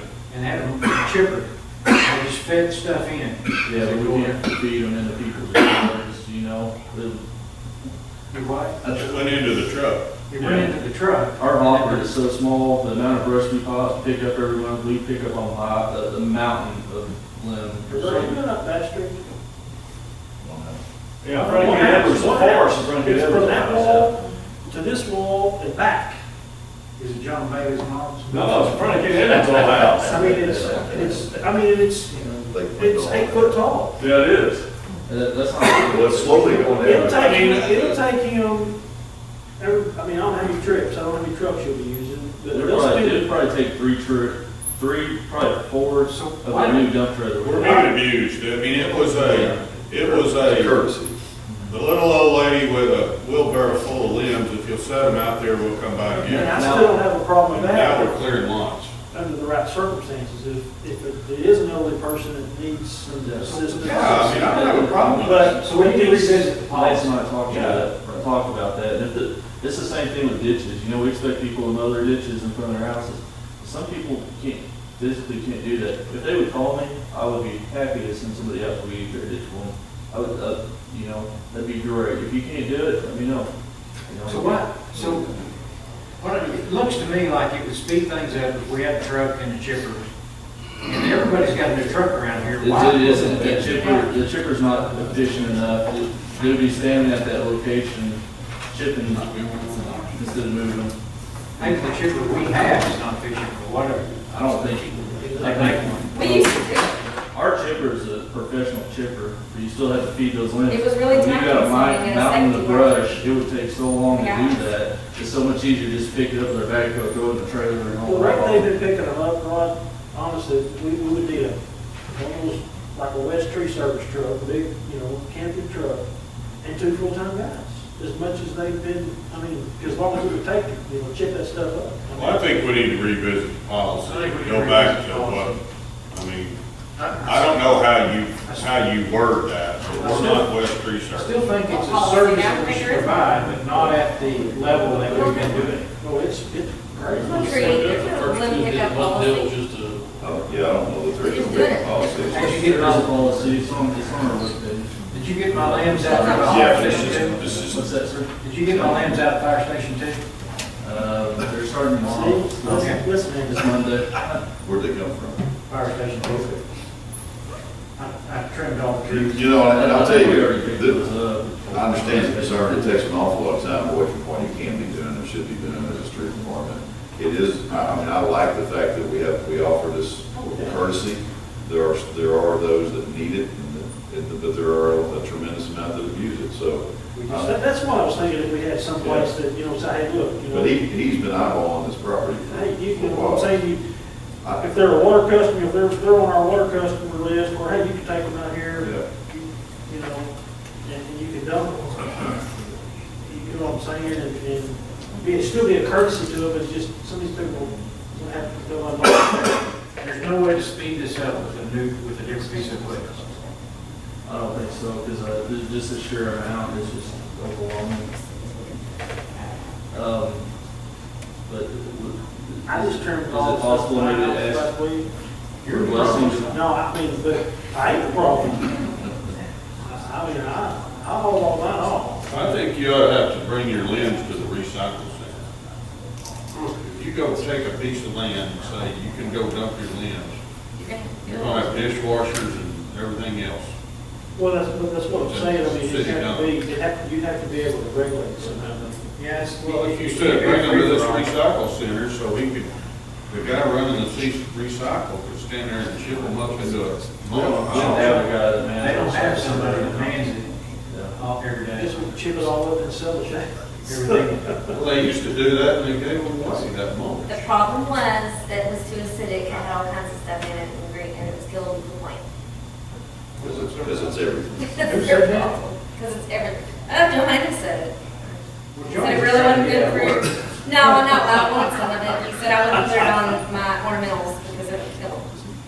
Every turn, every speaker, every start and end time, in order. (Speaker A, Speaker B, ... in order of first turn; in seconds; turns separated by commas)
Speaker A: 0.3-4.4, Speaker B: 3.6-7.2, Speaker A: 8.3-8.8, Speaker B: 8.8-9.4, Speaker C: 8.9-10.1, Speaker A: 10.3-12.1, Speaker B: 10.4-10.7, Speaker B: 11.4-18.4, Speaker D: 17.9-19.2, Speaker E: 20.4-20.8, Speaker F: 21.2-22.4, Speaker B: 21.4-24.1, Speaker D: 21.4-26.2, Speaker A: 27.0-29.9, Speaker F: 28.3-30.5, Speaker E: 29.3-29.9, Speaker D: 29.8-34.0, Speaker B: 30.1-31.2, Speaker E: 32.5-33.7, Speaker F: 34.0-34.5, Speaker B: 35.1-37.4, Speaker E: 35.8-37.4, Speaker D: 36.8-38.7, Speaker C: 37.1-38.0, Speaker D: 39.6-43.3, Speaker B: 42.5-47.9, Speaker A: 46.1-46.9, Speaker C: 47.4-50.8, Speaker B: 49.2-49.6, Speaker E: 50.0-51.1, Speaker C: 51.7-56.6, Speaker D: 56.2-58.2, Speaker B: 56.3-57.0, Speaker C: 57.5-58.9, Speaker D: 59.1-66.5, Speaker B: 63.2-63.6, Speaker A: 63.4-67.1, Speaker C: 63.8-65.6, Speaker B: 64.1-65.5, Speaker B: 66.7-83.5, Speaker B: 84.0-85.2, Speaker A: 84.2-85.3, Speaker A: 86.2-90.1, Speaker A: 90.8-94.1, Speaker B: 92.6-101.0, Speaker C: 99.1-100.1, Speaker A: 101.6-106.1, Speaker B: 104.3-106.8, Speaker D: 105.2-105.7, Speaker G: 106.1-107.0, Speaker B: 107.3-118.7, Speaker G: 110.7-113.2, Speaker G: 114.1-114.6, Speaker D: 118.0-121.6, Speaker D: 122.1-126.0, Speaker D: 126.6-132.6, Speaker C: 132.1-135.6, Speaker A: 134.0-135.6, Speaker C: 136.1-136.6, Speaker A: 137.0-137.5, Speaker C: 137.2-141.5, Speaker A: 138.4-138.7, Speaker A: 139.9-140.5, Speaker A: 141.1-145.8, Speaker G: 141.7-143.2, Speaker D: 145.1-148.0, Speaker G: 145.2-145.5, Speaker G: 147.2-149.5, Speaker F: 147.2-150.8, Speaker E: 150.2-152.7, Speaker G: 151.2-152.0, Speaker A: 152.3-153.1, Speaker B: 152.4-158.3, Speaker F: 153.1-153.7, Speaker A: 155.1-157.4, Speaker G: 156.0-157.2, Speaker E: 156.5-158.1, Speaker A: 158.4-160.2, Speaker E: 158.7-159.1, Speaker B: 160.8-164.4, Speaker D: 162.0-163.7, Speaker A: 162.6-163.0, Speaker E: 164.5-165.5, Speaker A: 165.7-166.6, Speaker A: 168.0-169.5, Speaker E: 169.1-171.1, Speaker B: 169.7-173.1, Speaker E: 171.7-187.5, Speaker D: 180.4-180.8, Speaker A: 187.1-187.5, Speaker D: 187.2-190.8, Speaker E: 189.0-189.3, Speaker E: 190.5-193.6, Speaker D: 192.5-193.8, Speaker E: 194.4-194.7, Speaker D: 194.6-200.3, Speaker E: 198.8-199.1, Speaker D: 200.8-202.2, Speaker D: 203.2-209.7, Speaker A: 210.0-213.3, Speaker B: 214.2-218.1, Speaker G: 218.1-219.1, Speaker B: 219.9-220.5, Speaker B: 221.4-224.7, Speaker D: 222.7-225.1, Speaker A: 225.6-226.5, Speaker B: 225.7-226.6, Speaker D: 225.9-228.7, Speaker D: 229.8-232.3, Speaker C: 232.3-235.5, Speaker C: 236.7-240.4, Speaker G: 240.8-241.9, Speaker C: 241.2-243.7, Speaker D: 244.3-249.0, Speaker C: 245.1-246.5, Speaker A: 249.2-251.3, Speaker C: 249.6-252.7, Speaker C: 253.3-258.2, Speaker B: 257.3-260.1, Speaker A: 257.7-260.5, Speaker B: 260.9-261.2, Speaker A: 261.1-262.5, Speaker D: 261.8-264.7, Speaker A: 263.9-264.5, Speaker C: 264.7-267.6, Speaker G: 267.3-272.2, Speaker E: 273.4-274.7, Speaker G: 274.6-278.4, Speaker A: 274.8-275.7, Speaker A: 278.7-280.9, Speaker G: 278.9-285.4